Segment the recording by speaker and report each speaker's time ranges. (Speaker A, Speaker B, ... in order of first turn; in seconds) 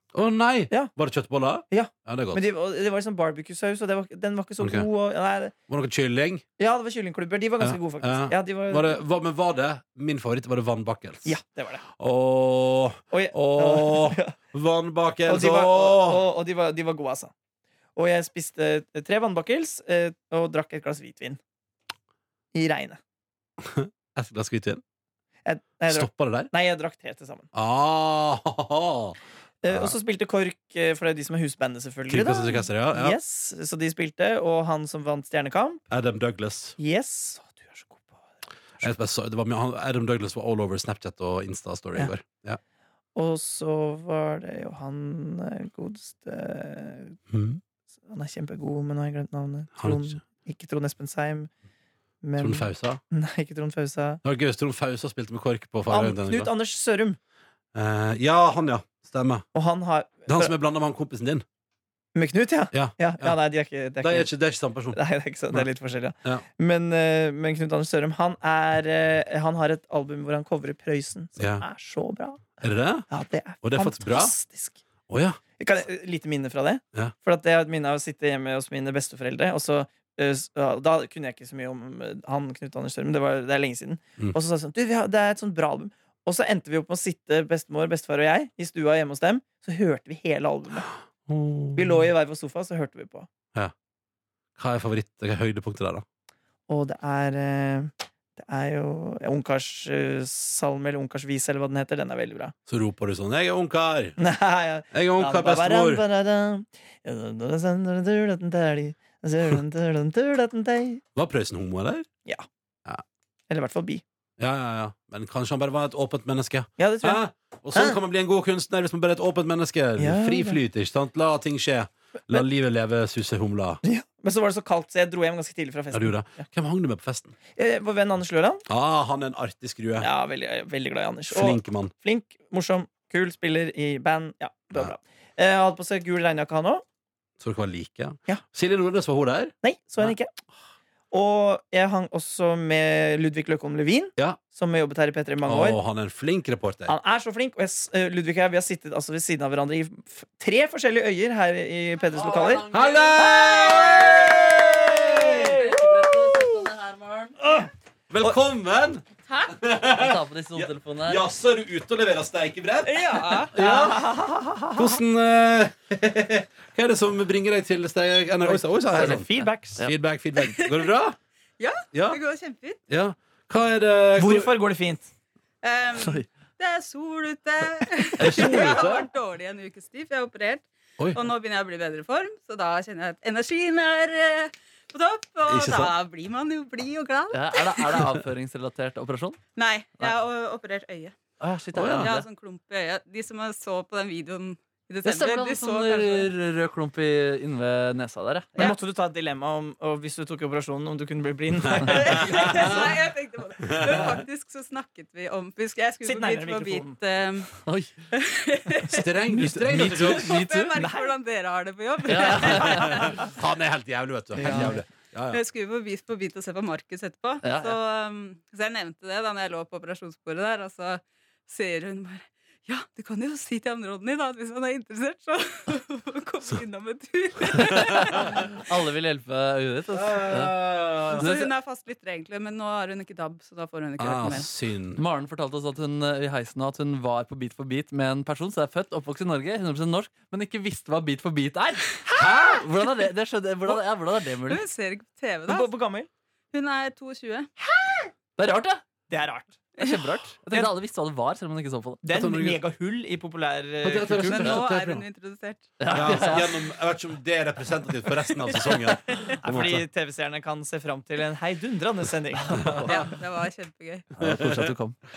Speaker A: 0.1-2.4, 4.6-4.9, 5.7-6.4, 7.6-11.4, 12.0-16.2, 23.6-24.8, 25.9-26.5, 27.5-29.2, 29.7-29.9, 32.1-33.2, 35.9-36.8, 38.8-42.6, 47.3-47.6, 49.8-50.2, 52.4-53.0, 54.2-56.5, 57.7-59.5, 60.3-61.4, 62.7-63.4, 64.0-65.0, 71.4-71.6, 72.6-73.0, 73.6-74.3, 75.1-75.4, 91.3-92.0, 94.6-96.0, 102.7-104.2, 104.9-106.0, 111.1-112.1, 114.4-123.8, 125.9-127.3, 128.7-130.1, 131.3-131.9, 137.4-139.5, 145.4-146.9, 152.7-155.7, 158.1-164.1, 164.7-171.2, 171.9-172.2, 172.9-174.6, 178.2-179.1, 185.5-185.9, 191.7-192.1, 201.7-202.7, 203.6-204.2, 208.9-210.4, 212.4-215.4, 229.9-231.4, 234.0-235.0, 242.2-242.6, 252.1-252.6, 253.8-255.0, 255.9-259.8, 262.6-263.0, 264.2-264.7
Speaker B: 1.7-5.5, 6.6-9.0, 11.2-11.8, 13.1-14.3, 15.3-17.3, 17.9-21.4, 22.5-23.0, 25.4-27.5, 29.6-35.8, 36.8-38.9, 43.1-47.2, 48.1-51.5, 52.2-54.2, 55.9-57.2, 59.5-60.5, 62.1-64.3, 64.9-72.4, 73.1-74.8, 75.6-90.9, 91.7-93.3, 96.7-102.5, 104.2-111.0, 113.5-114.0, 116.8-117.2, 120.0-120.6, 123.8-126.5, 127.5-128.6, 130.0-136.8, 139.6-140.3, 141.1-145.8, 146.9-152.6, 154.2-155.7, 163.2-164.9, 168.4-169.8, 174.2-175.1, 198.6-202.9, 206.0-207.0, 210.8-211.1, 214.4-214.8, 245.5-246.1, 249.1-249.6, 252.0-254.6, 259.4-262.9
Speaker C: 152.1-154.2, 155.1-157.4, 159.9-161.2, 176.0-176.2, 178.2-178.7, 187.3-189.4, 191.4-192.2, 195.0-198.6, 207.6-207.9, 209.4-210.8, 212.0-213.1, 217.4-217.8, 228.1-230.6, 231.1-231.5, 234.9-244.6, 248.4-248.8, 249.8-252.0, 255.8-256.5, 262.5-262.8, 264.2-265.0
Speaker D: 163.0-163.5, 170.4-170.9, 171.6-172.8, 175.6-188.0, 189.6-191.2, 191.9-196.3, 201.8-207.6, 208.1-213.3, 215.3-228.6, 231.1-234.5, 244.5-245.7, 246.5-247.5, 254.2-256.3, 262.8-264.1